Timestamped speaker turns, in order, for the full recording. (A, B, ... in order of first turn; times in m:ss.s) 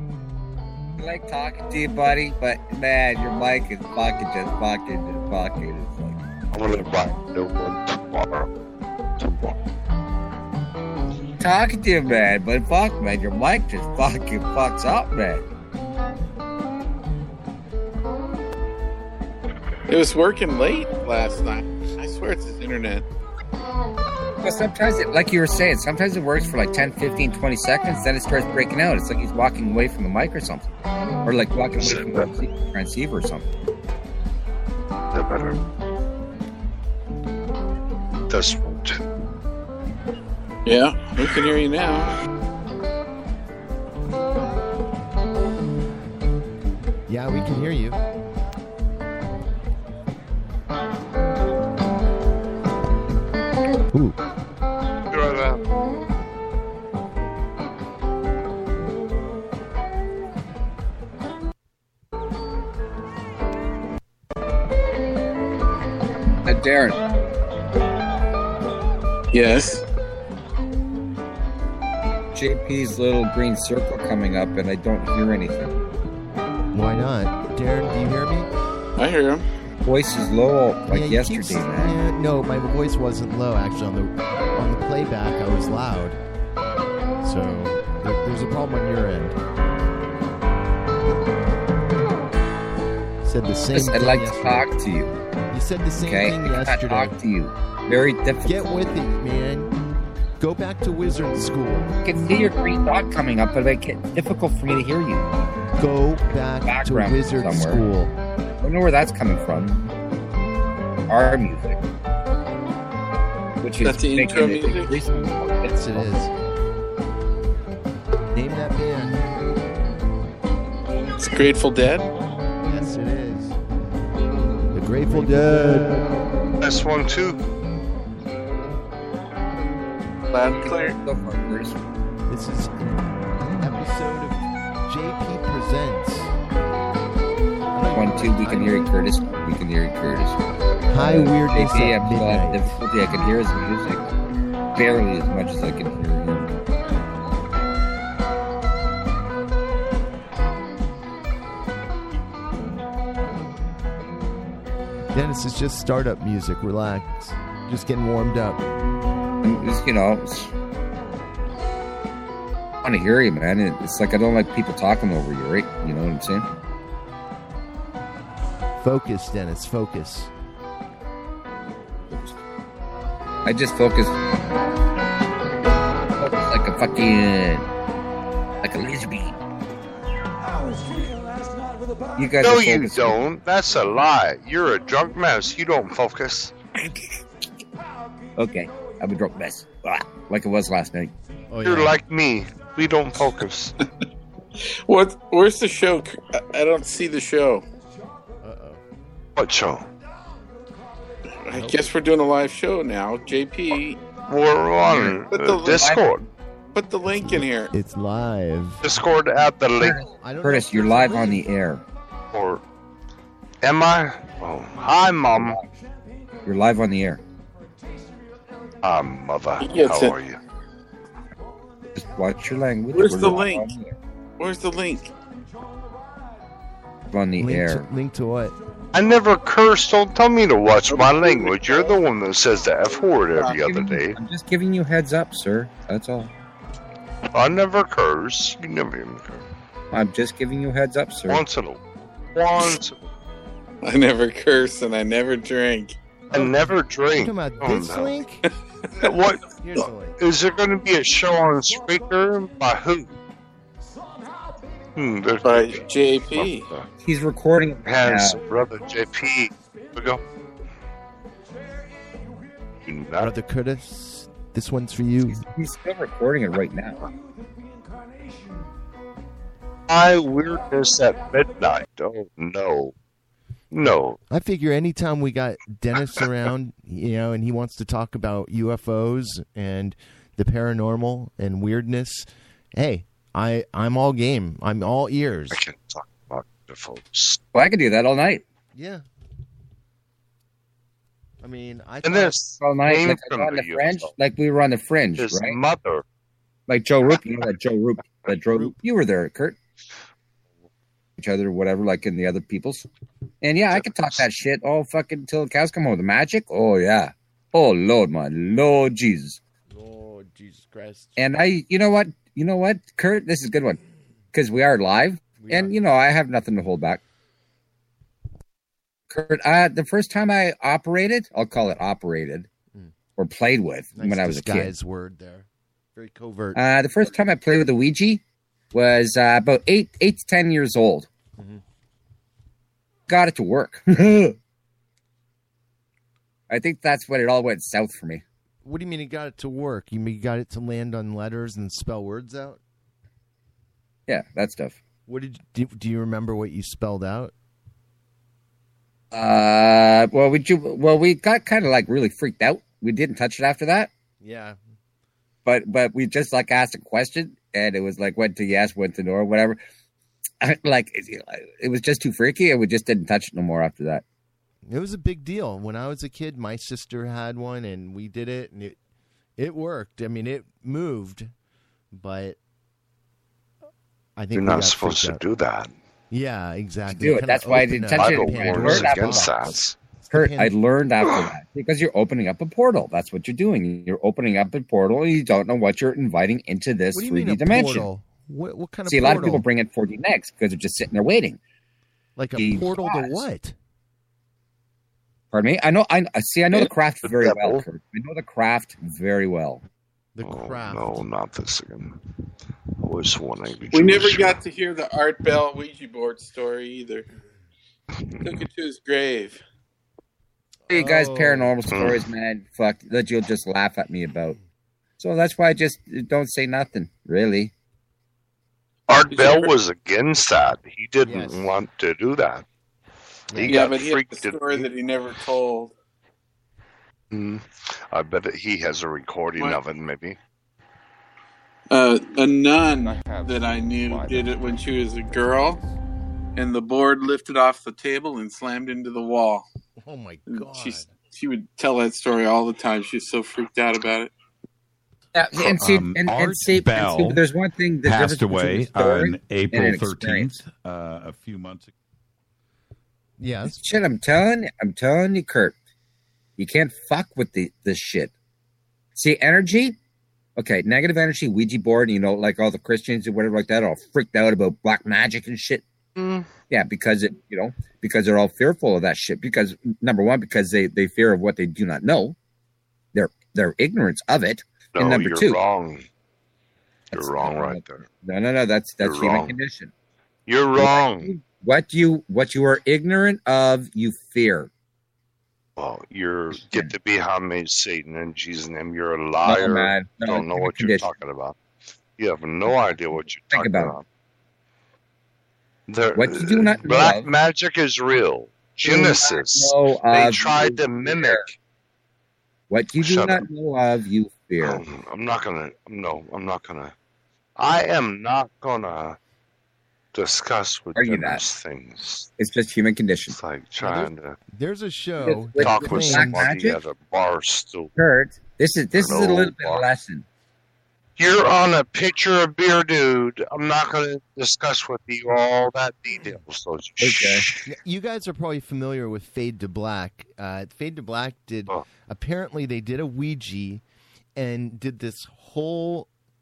0:01.0-0:06.2 A
0:06.5-0:08.5 B
0:09.2-0:09.6 B
0:11.4-0:15.4 A
0:19.9-0:23.0 C
0:24.4-0:30.7 A
0:31.2-0:33.4 A
0:31.7-0:32.4 B
0:35.1-0:35.6 B
0:38.2-0:39.0 B
0:40.6-0:42.2 C
0:47.1-0:48.0 D
0:53.9-0:54.2 D
0:55.1-0:55.6 B
1:06.4-1:07.0 A
1:09.3-1:09.8 C
1:12.3-1:15.8 A
1:16.7-1:18.5 D
1:19.0-1:19.4 C
1:19.8-1:22.0 A
1:20.9-1:26.2 D
1:27.2-1:29.4 D
1:33.2-1:34.6 D
1:33.7-1:35.1 A
1:35.5-1:37.1 D
1:36.0-1:38.6 A
1:38.4-1:39.7 D
1:40.4-1:42.0 D
1:42.0-1:45.3 A
1:45.8-1:48.1 D
1:46.6-1:47.8 A
1:48.6-1:49.8 A
1:51.1-1:51.8 A
1:53.6-1:56.1 A
1:53.8-1:55.0 C
1:55.6-1:56.3 D
1:58.3-1:59.3 D
2:01.1-2:02.1 C
2:02.6-2:03.6 D
2:04.7-2:06.1 D
2:06.6-2:07.4 B
2:10.3-2:11.0 C
2:10.5-2:11.8 A
2:12.3-2:16.3 D
2:17.7-2:18.8 D
2:17.9-2:20.4 A
2:20.9-2:22.8 D
2:20.9-2:24.0 A
2:24.7-2:26.5 A
2:35.1-2:38.7 D
2:39.4-2:40.5 A
2:42.8-2:46.5 A
2:48.8-2:50.3 D
2:52.1-2:52.4 A
2:53.4-2:54.2 A
2:56.2-2:57.7 A
2:58.6-2:59.4 A
3:02.2-3:03.2 A
3:02.4-3:06.5 B
3:08.4-3:11.1 A
3:11.5-3:12.0 D
3:11.6-3:13.8 B
3:14.9-3:17.6 C
3:18.4-3:18.8 D
3:19.4-3:19.9 B
3:21.4-3:24.0 C
3:21.5-3:21.9 D
3:24.3-3:26.3 B
3:24.9-3:26.0 A
3:25.3-3:26.0 C
3:26.7-3:27.7 C
3:27.2-3:28.8 D
3:28.8-3:30.0 B
3:29.8-3:31.8 A
3:30.2-3:31.4 D
3:32.3-3:32.6 B
3:33.6-3:35.6 B
3:35.3-3:35.6 A
3:36.4-3:37.2 A
3:38.8-3:40.4 B
3:39.6-3:40.2 C
3:41.9-3:44.0 A
3:42.9-3:43.7 C
3:44.4-3:45.1 C
3:47.1-3:47.8 A
3:47.4-3:48.5 D
3:48.9-3:54.2 B
3:50.9-3:51.9 C
3:53.4-3:53.6 C
3:53.5-3:56.3 A
3:57.3-3:59.5 B
3:59.9-4:01.4 A
4:01.3-4:01.8 B
4:02.3-4:03.1 B
4:03.8-4:05.9 C
4:06.3-4:06.6 D
4:06.3-4:08.2 B
4:07.1-4:08.5 D
4:09.0-4:13.2 B
4:09.6-4:10.2 D
4:14.9-4:16.9 B
4:15.4-4:16.7 C
4:17.0-4:18.4 A
4:17.8-4:20.2 B
4:22.8-4:23.3 B
4:23.2-4:25.4 D
4:25.3-4:27.0 A
4:29.9-4:32.9 B
4:33.7-4:34.2 B
4:34.3-4:45.6 D
4:45.5-4:47.4 B
4:47.5-4:48.4 A
4:48.7-4:49.0 D
4:51.4-4:52.4 D
4:52.0-4:54.1 B
4:52.6-4:55.6 A
4:55.2-4:56.0 B
4:56.7-4:59.6 A
4:58.5-4:58.8 D
5:01.2-5:02.9 A
5:03.4-5:09.4 A
5:03.7-5:04.2 B
5:09.7-5:11.2 D
5:11.2-5:13.8 A
5:14.3-5:17.0 A
5:15.4-5:15.8 D
5:19.1-5:22.5 A
5:23.2-5:24.7 A
5:23.9-5:26.6 D
5:26.6-5:28.2 A
5:28.7-5:31.1 A
5:31.4-5:31.6 D
5:33.1-5:34.4 A
5:36.5-5:38.2 A
5:38.6-5:42.6 D
5:44.1-5:44.8 A
5:45.1-5:47.3 D
5:49.1-5:53.9 A
5:54.2-5:54.6 D
5:55.4-5:59.6 A
6:00.4-6:04.0 A
6:04.7-6:08.8 D
6:09.4-6:11.3 D
6:11.9-6:12.4 D
6:14.2-6:15.2 D
6:14.3-6:15.7 B
6:16.1-6:20.5 D
6:16.9-6:19.5 A
6:17.9-6:19.8 B
6:20.1-6:27.9 A
6:21.0-6:21.3 B
6:26.9-6:29.4 D
6:28.9-6:31.4 A
6:32.2-6:33.5 D
6:32.4-6:33.3 A
6:35.3-6:39.6 A
6:36.5-6:37.6 B
6:40.1-6:41.0 D
6:40.2-6:42.0 B
6:42.8-6:44.4 B
6:43.7-6:47.1 C
6:47.9-6:48.4 B
6:48.2-6:49.4 C
6:50.7-6:51.6 D
6:50.7-6:54.4 A
6:51.7-6:52.1 B
6:55.0-6:57.5 A
6:58.9-7:02.4 B
6:59.1-6:59.5 C
7:01.0-7:01.5 D
7:03.3-7:03.6 D
7:03.3-7:04.7 B
7:03.4-7:05.7 C
7:07.1-7:10.2 B
7:11.7-7:15.6 C
7:16.4-7:19.4 C
7:19.8-7:20.9 D
7:20.3-7:24.1 C
7:25.1-7:30.4 A
7:25.4-7:27.2 E
7:27.8-7:31.7 E
7:33.2-7:33.6 D
7:33.5-7:35.6 A
7:36.4-7:38.1 A
7:38.9-7:39.8 A
7:40.4-7:45.6 A
7:46.0-7:46.3 B
7:46.5-7:52.2 A
7:52.9-7:55.4 A
7:54.7-7:55.9 B
7:56.9-7:57.8 B
7:56.9-7:59.7 A
7:58.8-7:59.4 B
8:00.3-8:01.1 B
8:00.6-8:04.5 A
8:05.6-8:11.4 B
8:06.4-8:06.7 A
8:09.2-8:10.9 A
8:12.0-8:13.8 B
8:13.3-8:13.8 A
8:15.7-8:21.3 B
8:15.9-8:17.1 A
8:18.6-8:21.3 A
8:22.5-8:24.6 A
8:22.8-8:23.2 B
8:24.4-8:26.7 B
8:27.4-8:29.0 B
8:29.9-8:32.1 B
8:30.7-8:31.2 A
8:32.2-8:33.2 A
8:33.1-8:34.2 B
8:33.6-8:36.3 D
8:35.0-8:36.6 A
8:35.4-8:37.7 B
8:37.8-8:40.0 A
8:38.7-8:39.7 B
8:41.0-8:47.5 B
8:46.8-8:47.2 A
8:47.4-8:53.6 D
8:54.2-8:55.9 D